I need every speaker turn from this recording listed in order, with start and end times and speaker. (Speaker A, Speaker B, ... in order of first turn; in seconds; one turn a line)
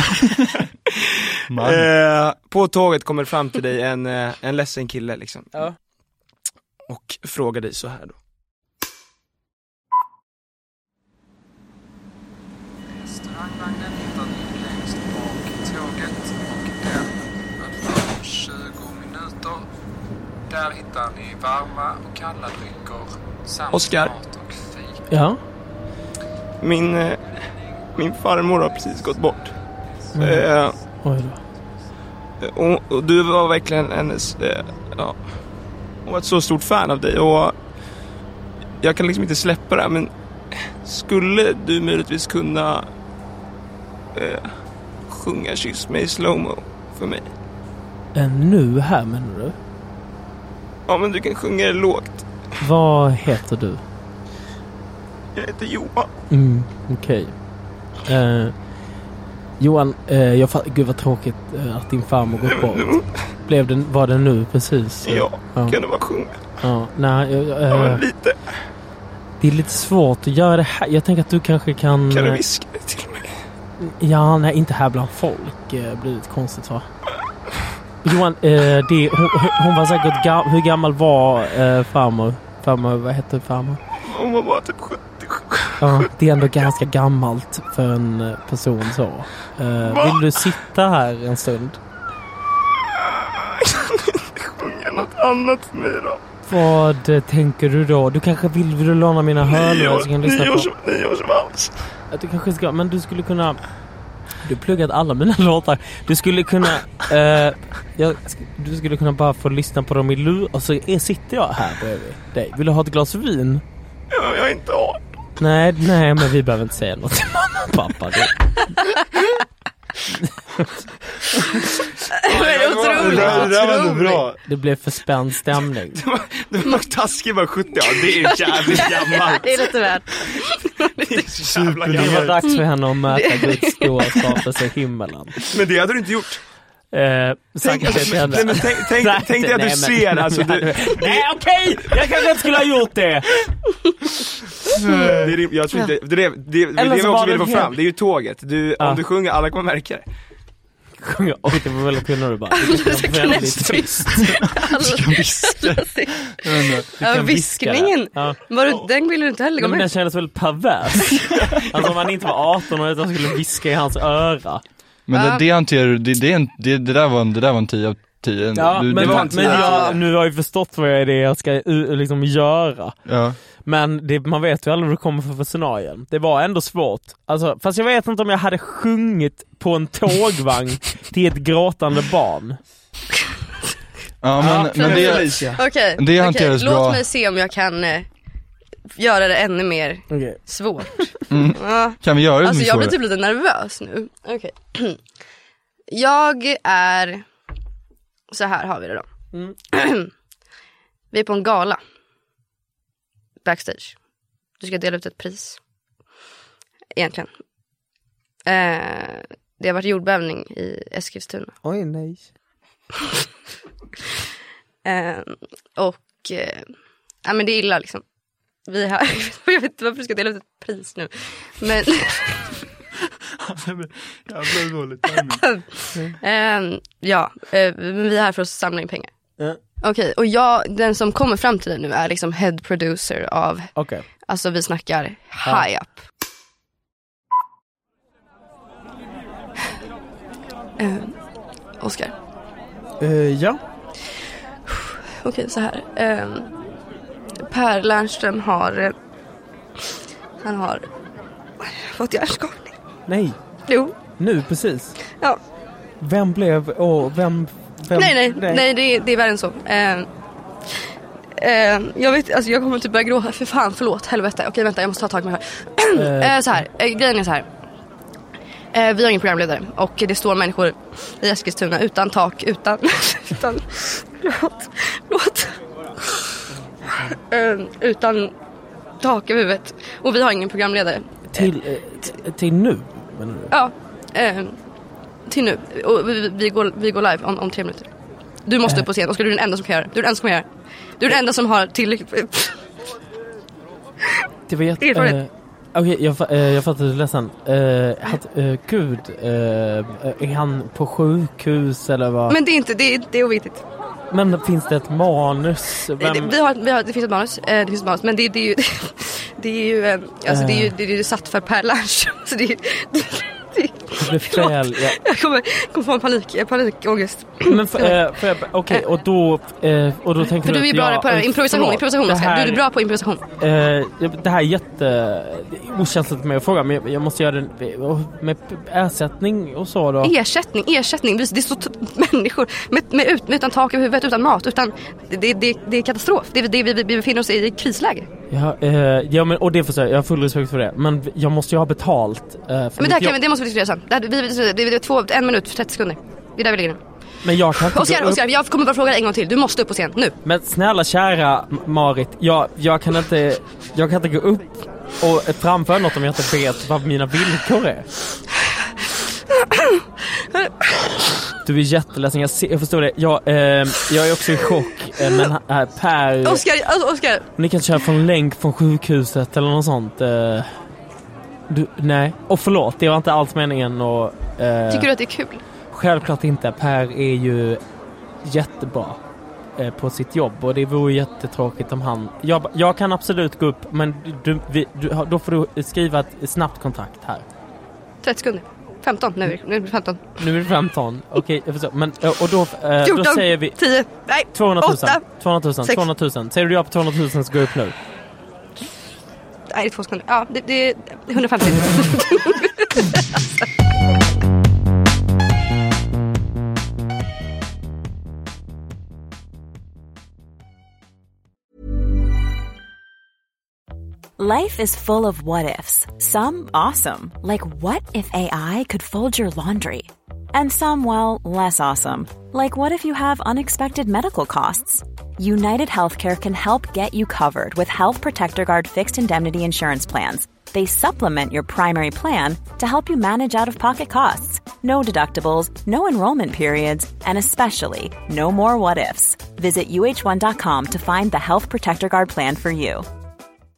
Speaker A: 1.5-1.9
Speaker B: 1.5-5.7
Speaker B: 6.9-8.2
Speaker C: 12.9-19.6
Speaker C: 20.5-25.0
Speaker B: 23.7-24.1
Speaker D: 25.1-25.4
Speaker B: 26.6-29.6
Speaker D: 30.1-31.4
Speaker B: 30.2-30.8
Speaker B: 32.4-35.4
Speaker B: 36.0-37.5
Speaker B: 38.8-40.1
Speaker B: 40.8-42.9
Speaker B: 44.1-44.5
Speaker B: 45.1-47.2
Speaker D: 48.1-49.5
Speaker B: 50.9-52.2
Speaker D: 52.6-53.8
Speaker B: 55.3-56.1
Speaker D: 56.3-58.6
Speaker D: 59.6-65.8
Speaker B: 62.5-63.2
Speaker B: 65.0-66.6
Speaker D: 66.6-68.0
Speaker B: 67.7-68.4
Speaker D: 69.4-72.4
Speaker B: 72.1-73.4
Speaker D: 73.8-76.8
Speaker D: 78.0-83.8
Speaker B: 84.0-86.0
Speaker D: 85.8-91.8
Speaker B: 89.8-90.2
Speaker B: 93.4-96.2
Speaker D: 96.5-100.7
Speaker B: 99.5-101.8
Speaker D: 102.1-103.6
Speaker D: 104.4-113.6
Speaker B: 114.1-115.0
Speaker D: 115.4-118.4
Speaker D: 120.2-120.7
Speaker E: 122.2-124.2
Speaker B: 122.2-123.6
Speaker A: 122.9-124.4
Speaker D: 124.4-126.0
Speaker B: 126.0-129.6
Speaker E: 127.9-131.2
Speaker B: 131.0-132.3
Speaker A: 131.4-132.5
Speaker D: 131.9-135.3
Speaker E: 132.4-134.1
Speaker B: 135.5-136.4
Speaker D: 136.9-143.3
Speaker B: 137.6-141.2
Speaker A: 144.8-145.3
Speaker B: 145.2-150.1
Speaker D: 146.7-147.7
Speaker D: 151.0-154.2
Speaker E: 152.6-159.9
Speaker A: 154.6-156.9
Speaker D: 157.0-158.8
Speaker D: 159.6-164.6
Speaker A: 165.1-169.8
Speaker E: 165.1-165.4
Speaker D: 168.5-173.1
Speaker B: 168.9-170.0
Speaker E: 169.6-170.0
Speaker A: 173.1-173.4
Speaker D: 173.6-182.6
Speaker A: 184.2-187.0
Speaker B: 184.5-185.6
Speaker E: 184.7-188.1
Speaker E: 189.0-195.0
Speaker D: 190.1-190.4
Speaker A: 191.3-192.9
Speaker E: 195.9-197.2
Speaker E: 198.3-199.1
Speaker E: 199.7-200.1
Speaker E: 201.1-201.8
Speaker E: 203.4-203.9
Speaker E: 204.6-205.6
Speaker E: 206.9-207.3
Speaker E: 208.4-211.5
Speaker D: 211.6-212.3
Speaker E: 214.8-216.7
Speaker E: 217.2-218.0
Speaker E: 218.7-222.6
Speaker A: 223.4-225.6
Speaker E: 225.1-229.1
Speaker E: 229.8-233.8
Speaker D: 233.7-234.0
Speaker E: 234.3-236.0
Speaker E: 240.8-241.2
Speaker E: 241.8-242.1
Speaker D: 243.0-243.6
Speaker E: 244.7-246.5
Speaker E: 247.5-248.9
Speaker E: 250.4-250.8
Speaker E: 251.6-252.7
Speaker D: 253.1-253.4
Speaker E: 253.7-253.9
Speaker D: 254.2-255.0
Speaker D: 256.0-258.6
Speaker E: 257.9-260.1
Speaker E: 261.4-267.4
Speaker D: 265.9-266.6
Speaker E: 268.7-276.2
Speaker E: 277.1-278.3
Speaker E: 279.0-281.5
Speaker D: 281.3-283.5
Speaker E: 283.5-284.6
Speaker E: 285.3-287.9
Speaker E: 288.4-290.5
Speaker E: 291.0-292.6
Speaker D: 294.5-302.4
Speaker E: 294.8-295.2
Speaker E: 302.3-303.6
Speaker D: 304.1-306.3
Speaker E: 306.0-318.0
Speaker D: 310.2-310.7
Speaker D: 314.0-315.0
Speaker D: 317.5-322.6
Speaker E: 320.4-323.2
Speaker D: 323.4-330.1
Speaker E: 330.0-338.1
Speaker D: 338.3-343.1
Speaker E: 342.8-346.8
Speaker D: 347.2-348.2
Speaker E: 347.5-350.1
Speaker D: 350.2-357.9
Speaker E: 359.5-360.8
Speaker D: 361.4-366.4
Speaker E: 366.2-367.3
Speaker D: 367.4-370.5
Speaker D: 371.5-374.9
Speaker E: 374.7-375.4
Speaker D: 375.7-377.6
Speaker D: 378.2-379.0
Speaker D: 379.6-387.2
Speaker E: 388.0-390.2
Speaker D: 390.2-393.6
Speaker E: 392.8-395.0
Speaker D: 394.3-397.7
Speaker E: 399.5-403.4
Speaker F: 414.2-442.9